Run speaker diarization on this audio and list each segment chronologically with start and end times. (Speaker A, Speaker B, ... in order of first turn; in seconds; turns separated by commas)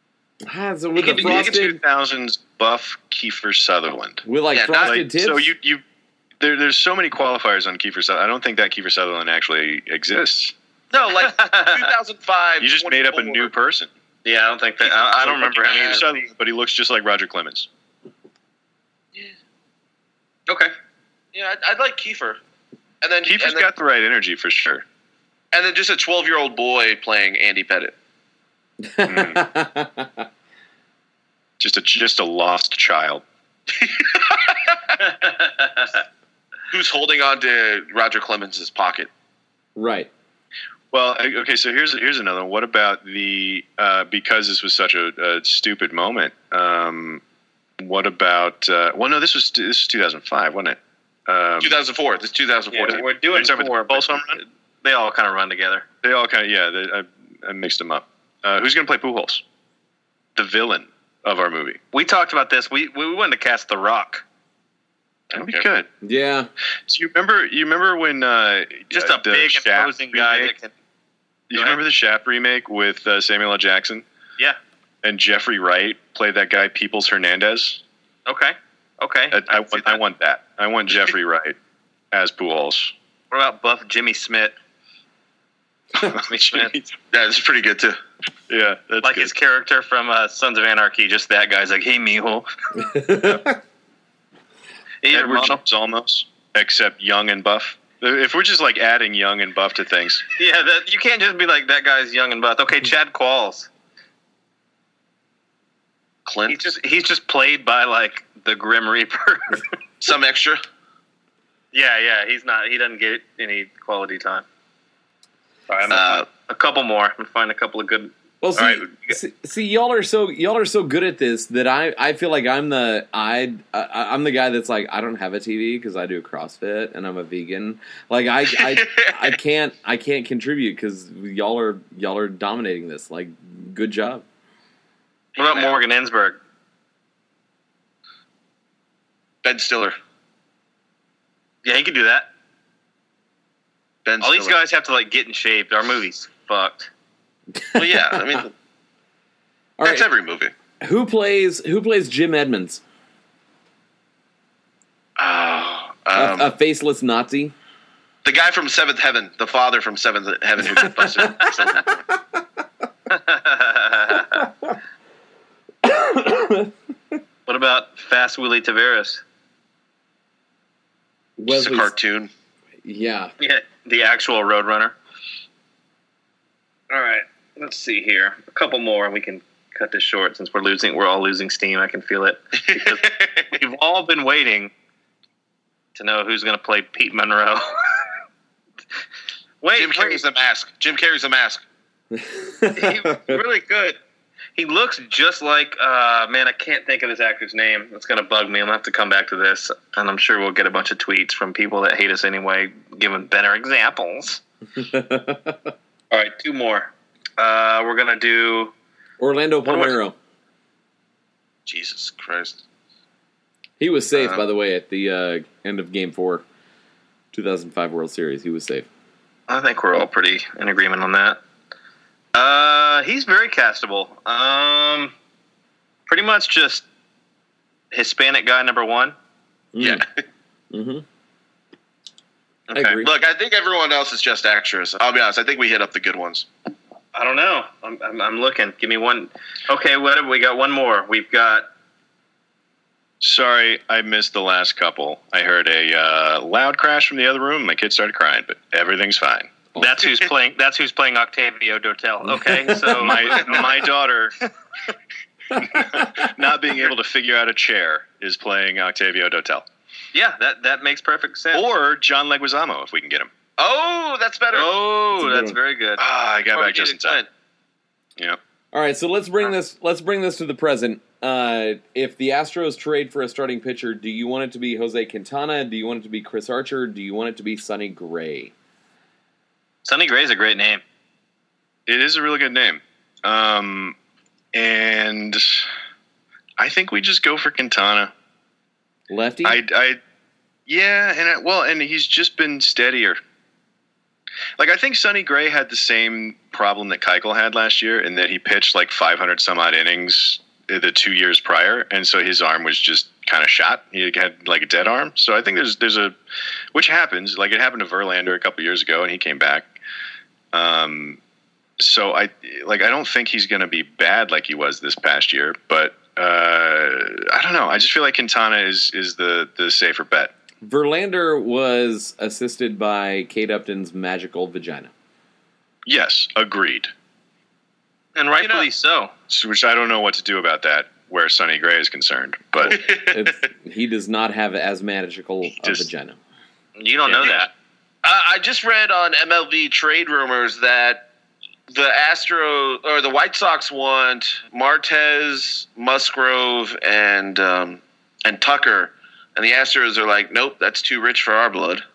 Speaker A: 0.4-1.8, Speaker B: 1.0-1.6, Speaker C: 1.1-4.2, Speaker A: 4.2-5.5, Speaker B: 4.5-5.0, Speaker C: 4.8-5.8, Speaker C: 6.4-10.5, Speaker B: 10.9-13.5, Speaker D: 11.2-11.9, Speaker C: 12.6-13.9, Speaker D: 14.2-16.1, Speaker B: 14.8-16.0, Speaker C: 15.6-17.7, Speaker D: 20.5-20.7, Speaker B: 21.3-22.4, Speaker B: 23.0-23.6, Speaker C: 23.2-24.8, Speaker B: 25.5-27.9, Speaker A: 28.8-30.2, Speaker C: 29.0-29.4, Speaker C: 31.6-33.2, Speaker B: 33.7-34.7, Speaker D: 35.0-36.0, Speaker B: 36.7-39.1, Speaker A: 39.8-40.1, Speaker C: 40.9-47.2, Speaker C: 47.8-51.8, Speaker B: 51.6-53.0, Speaker D: 52.7-55.8, Speaker C: 52.8-54.4, Speaker C: 56.0-59.4, Speaker C: 60.4-61.8, Speaker D: 61.9-64.2, Speaker B: 65.3-65.7, Speaker C: 65.3-65.9, Speaker A: 66.0-66.5, Speaker C: 66.9-70.5, Speaker D: 68.9-70.7, Speaker C: 71.5-74.0, Speaker D: 71.5-71.8, Speaker C: 75.0-77.8, Speaker D: 78.2-80.0, Speaker C: 79.3-81.5, Speaker C: 82.1-82.9, Speaker D: 83.3-84.5, Speaker C: 86.0-86.9, Speaker D: 86.0-86.8, Speaker B: 87.1-88.0, Speaker C: 88.5-89.3, Speaker D: 89.0-92.5, Speaker A: 92.8-93.6, Speaker D: 95.0-95.6, Speaker C: 95.1-100.2, Speaker D: 100.4-103.7, Speaker B: 106.2-106.6, Speaker D: 106.5-109.6, Speaker B: 110.0-110.6, Speaker D: 111.7-114.4, Speaker D: 115.7-119.2, Speaker B: 115.9-116.2, Speaker A: 118.4-134.2, Speaker B: 128.6-129.3, Speaker B: 135.3-135.7, Speaker D: 135.4-136.4, Speaker B: 139.4-139.9, Speaker D: 141.6-142.3, Speaker B: 144.0-144.6, Speaker D: 144.2-146.9, Speaker A: 147.6-148.0, Speaker B: 147.7-148.5, Speaker A: 149.8-150.1, Speaker B: 149.8-150.5, Speaker A: 150.8-152.8, Speaker B: 155.2-156.5, Speaker A: 156.1-157.5, Speaker B: 158.2-162.0, Speaker A: 161.0-161.5, Speaker D: 163.1-164.4, Speaker A: 164.3-164.8, Speaker A: 165.8-167.2, Speaker D: 167.5-169.2, Speaker A: 171.4-171.9, Speaker B: 171.5-172.3, Speaker A: 172.8-173.3, Speaker D: 173.4-174.9, Speaker D: 176.9-184.7, Speaker B: 182.7-183.5, Speaker D: 185.9-188.0, Speaker D: 189.6-190.2, Speaker B: 189.8-191.6, Speaker A: 192.1-193.3, Speaker D: 192.7-194.0, Speaker D: 194.6-204.4, Speaker A: 204.8-205.7, Speaker D: 206.1-208.7, Speaker A: 209.2-210.1, Speaker B: 211.7-212.6, Speaker A: 213.8-216.4, Speaker B: 214.2-214.4, Speaker A: 217.3-218.9, Speaker D: 219.5-221.4, Speaker D: 222.3-225.1, Speaker D: 226.1-226.8, Speaker D: 227.9-229.1, Speaker A: 229.7-230.0, Speaker B: 229.8-230.0, Speaker A: 230.7-231.0, Speaker D: 232.7-233.0, Speaker A: 232.7-233.1, Speaker B: 233.0-236.5, Speaker D: 237.1-241.7, Speaker C: 243.2-249.7, Speaker D: 249.7-253.8, Speaker A: 252.4-252.9, Speaker C: 252.9-254.4, Speaker B: 253.3-253.7, Speaker C: 255.5-259.6, Speaker D: 260.1-261.7, Speaker C: 261.5-263.3, Speaker B: 263.6-264.7, Speaker D: 264.5-266.0, Speaker A: 265.1-265.6, Speaker C: 266.0-267.2, Speaker B: 266.5-267.3, Speaker A: 268.7-278.5, Speaker D: 279.8-280.8, Speaker C: 281.9-283.9, Speaker C: 284.5-285.7, Speaker C: 286.6-288.1, Speaker A: 289.1-289.6, Speaker C: 289.4-290.0, Speaker C: 290.7-293.2, Speaker C: 294.6-306.1, Speaker C: 306.7-309.7, Speaker C: 310.5-311.2, Speaker C: 311.8-320.3, Speaker A: 320.6-324.9, Speaker C: 325.9-326.9, Speaker D: 328.1-329.1, Speaker B: 328.4-328.7, Speaker C: 329.3-332.8, Speaker B: 332.7-333.3, Speaker A: 333.1-336.2, Speaker C: 335.6-335.9, Speaker D: 336.8-337.5, Speaker B: 338.0-341.1, Speaker B: 341.7-351.8